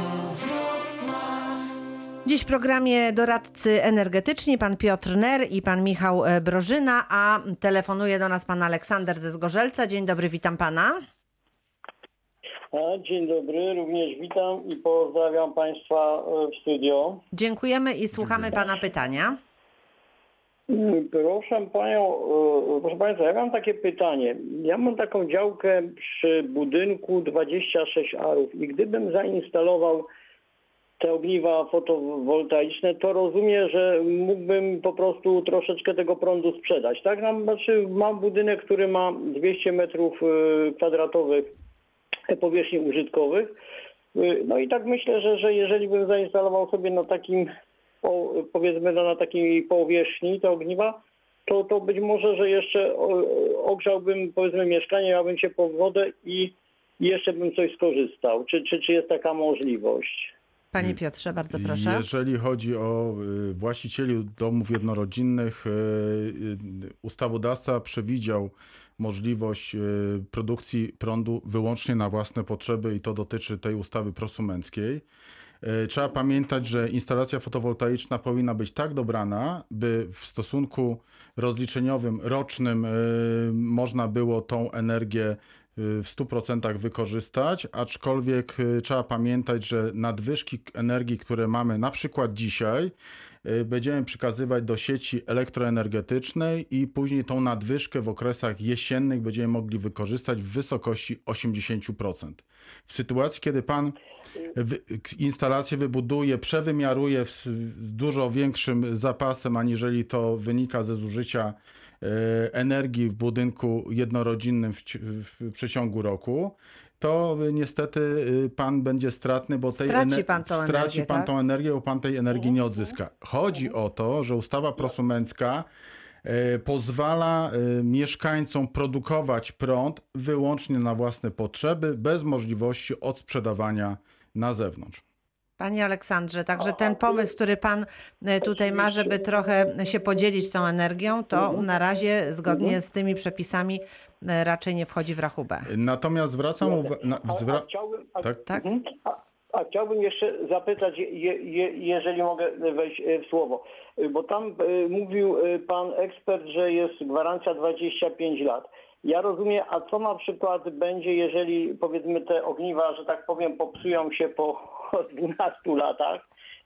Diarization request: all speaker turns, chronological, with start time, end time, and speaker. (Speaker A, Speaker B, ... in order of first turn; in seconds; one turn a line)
Speaker A: 2.2-11.0
Speaker B: 12.7-17.2
Speaker A: 17.3-19.4
Speaker B: 20.7-30.1
Speaker B: 31.0-41.5
Speaker B: 42.3-43.5
Speaker B: 44.1-47.5
Speaker B: 48.0-60.3
Speaker A: 60.7-62.0
Speaker C: 61.5-75.0
Speaker C: 75.6-104.0
Speaker C: 104.5-125.7
Speaker A: 119.7-121.3
Speaker C: 126.2-135.0
Speaker A: 135.6-145.7
Speaker B: 141.3-141.7
Speaker B: 142.5-142.8
Speaker C: 145.7-147.7
Speaker B: 146.6-166.3
Speaker C: 148.2-148.5